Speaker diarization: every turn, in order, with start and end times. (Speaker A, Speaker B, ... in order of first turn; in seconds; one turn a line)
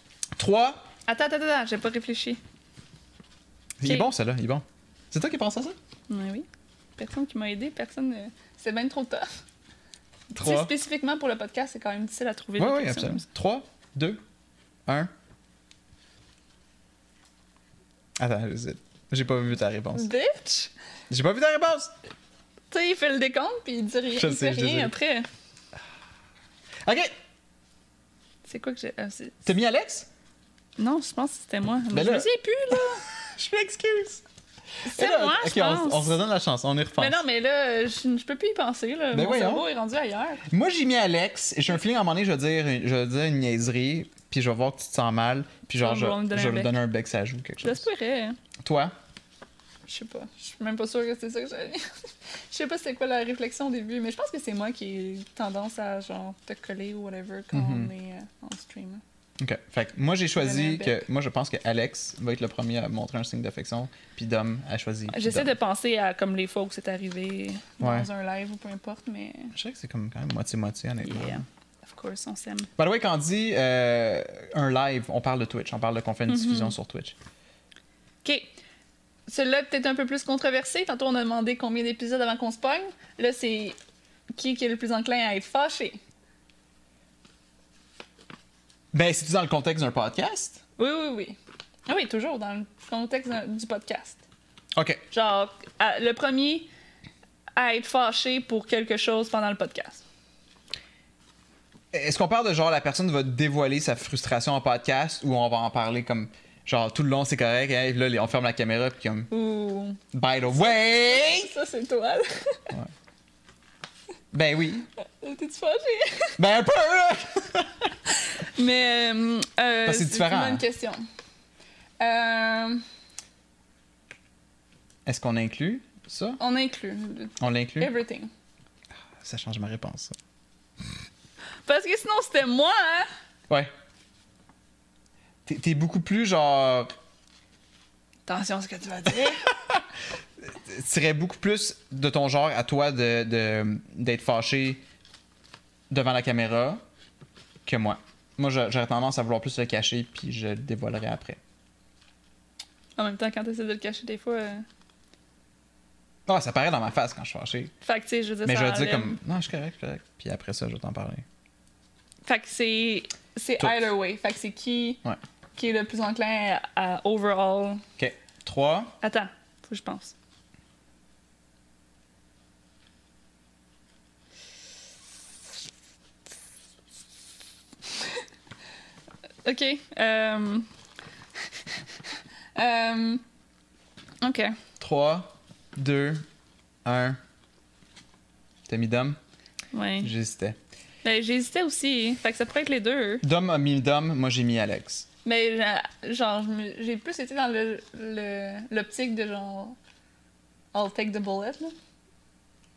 Speaker A: 0.4-0.8
Speaker B: 1.1-2.4
Speaker A: 3.8-5.8
Speaker B: 3.8-4.1
Speaker B: 6.1-9.3
Speaker A: 10.3-10.7
Speaker B: 10.4-13.2
Speaker A: 12.6-14.2
Speaker A: 18.2-20.1
Speaker B: 19.9-20.7
Speaker A: 21.1-21.9
Speaker B: 22.7-25.3
Speaker A: 24.1-24.9
Speaker A: 26.9-27.1
Speaker B: 28.4-29.4
Speaker A: 29.4-30.1
Speaker B: 30.8-33.0
Speaker A: 31.9-34.2
Speaker A: 34.9-37.2
Speaker B: 34.9-36.2
Speaker B: 37.0-40.4
Speaker A: 39.1-39.7
Speaker A: 40.5-47.9
Speaker B: 45.8-46.8
Speaker B: 47.6-48.4
Speaker A: 48.6-48.9
Speaker B: 49.9-51.9
Speaker B: 52.5-59.0
Speaker A: 57.5-57.9
Speaker A: 59.4-65.5
Speaker B: 60.4-61.0
Speaker B: 65.1-69.5
Speaker A: 67.8-68.1
Speaker A: 69.5-71.5
Speaker B: 71.0-72.7
Speaker A: 72.8-77.2
Speaker B: 76.3-76.7
Speaker B: 78.2-78.5
Speaker B: 79.3-83.8
Speaker B: 84.3-86.0
Speaker A: 88.9-90.6
Speaker B: 90.8-94.2
Speaker A: 94.8-95.0
Speaker B: 95.1-96.7
Speaker B: 97.6-100.0
Speaker A: 101.9-109.3
Speaker B: 109.3-110.0
Speaker A: 110.1-111.5
Speaker B: 110.5-112.7
Speaker A: 114.3-114.9
Speaker B: 115.2-116.4
Speaker A: 116.4-117.9
Speaker B: 118.3-121.1
Speaker A: 119.8-120.6
Speaker B: 122.0-122.8
Speaker A: 125.1-126.4
Speaker B: 126.4-128.3
Speaker A: 127.4-127.9
Speaker A: 129.2-130.2
Speaker B: 131.7-133.1
Speaker A: 135.5-136.9
Speaker B: 138.3-139.4
Speaker A: 139.1-139.8
Speaker A: 140.5-144.8
Speaker A: 145.9-146.8
Speaker A: 147.7-151.4
Speaker B: 153.0-154.7
Speaker A: 156.3-157.7
Speaker B: 157.8-159.2
Speaker A: 158.4-161.2
Speaker B: 162.2-165.0
Speaker A: 163.6-163.8
Speaker B: 165.6-167.8
Speaker A: 168.0-168.9
Speaker B: 169.0-170.1
Speaker B: 179.4-180.7
Speaker B: 181.5-181.8
Speaker B: 182.6-183.2
Speaker B: 184.2-184.6
Speaker A: 184.8-186.3
Speaker A: 186.8-187.2
Speaker A: 188.7-189.2
Speaker B: 189.7-190.1
Speaker A: 190.0-190.6
Speaker B: 191.0-193.2
Speaker A: 193.2-195.1
Speaker B: 195.2-199.8
Speaker B: 200.7-201.8